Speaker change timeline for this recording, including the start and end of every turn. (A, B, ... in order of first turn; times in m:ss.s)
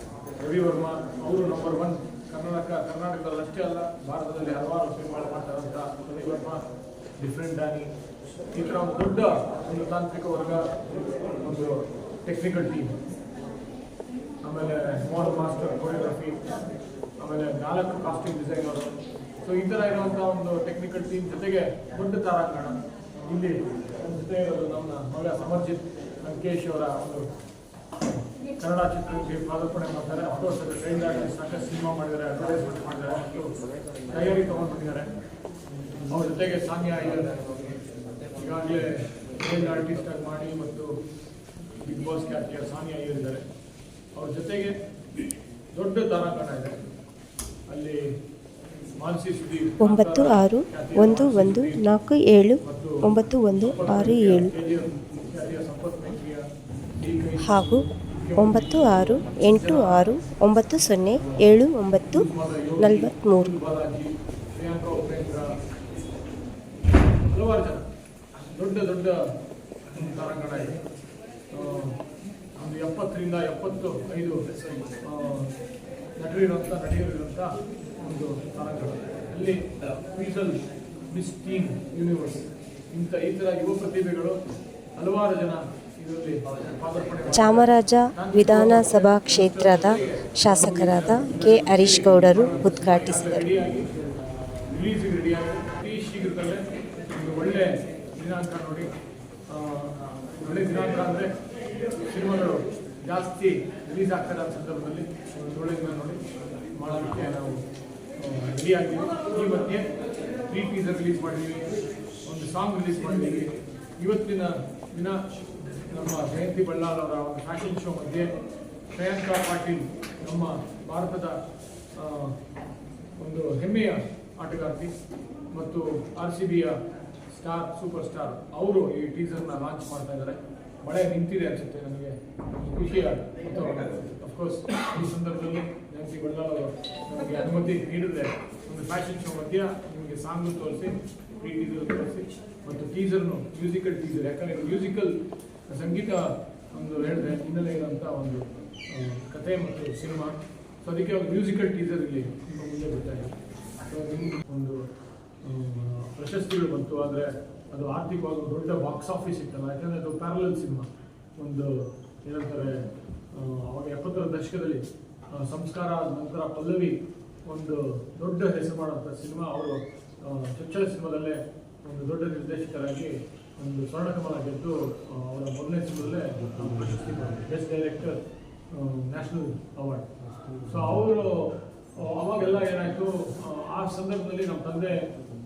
0:00.4-0:06.6 A
0:07.2-0:07.9 A
0:08.5-0:10.7 A
0:11.4-0:13.0 A
0:14.4-0:16.5 A
0:17.2-0:22.8 A
0:23.3-0:27.2 A
0:28.1-0:33.5 A
0:34.1-0:35.1 A
0:36.1-0:37.8 A
0:38.4-0:40.9 A
0:41.8-0:43.4 A
0:44.2-0:44.7 A
0:45.7-0:46.9 A
0:47.7-0:48.0 A
0:49.0-0:51.9 A
0:49.8-0:54.5 B
0:52.6-0:56.4 A
0:57.0-1:00.2 A
0:57.4-0:57.8 B
0:58.4-1:02.2 B
1:01.2-1:01.6 A
1:02.1-1:05.5 A
1:02.8-1:03.5 B
1:07.3-1:07.8 A
1:08.5-1:09.2 A
1:09.9-1:10.8 A
1:11.5-1:12.0 A
1:12.6-1:14.4 A
1:15.0-1:15.5 A
1:16.2-1:17.5 A
1:18.0-1:24.4 A
1:25.0-1:38.9 A
1:27.3-1:33.4 B
1:39.5-1:41.3 A
1:42.1-1:46.2 A
1:46.7-1:47.6 A
1:48.2-1:49.9 A
1:50.5-1:51.7 A
1:52.2-1:55.2 A
1:55.9-1:58.3 A
1:58.9-2:01.4 A
2:02.0-2:02.4 A
2:03.2-2:04.9 A
2:05.5-2:06.8 A
2:07.3-2:25.2 A
2:25.7-2:33.4 A
2:33.9-2:34.8 A
2:35.4-2:58.2 A
2:58.7-3:00.1 A
3:00.6-3:05.1 A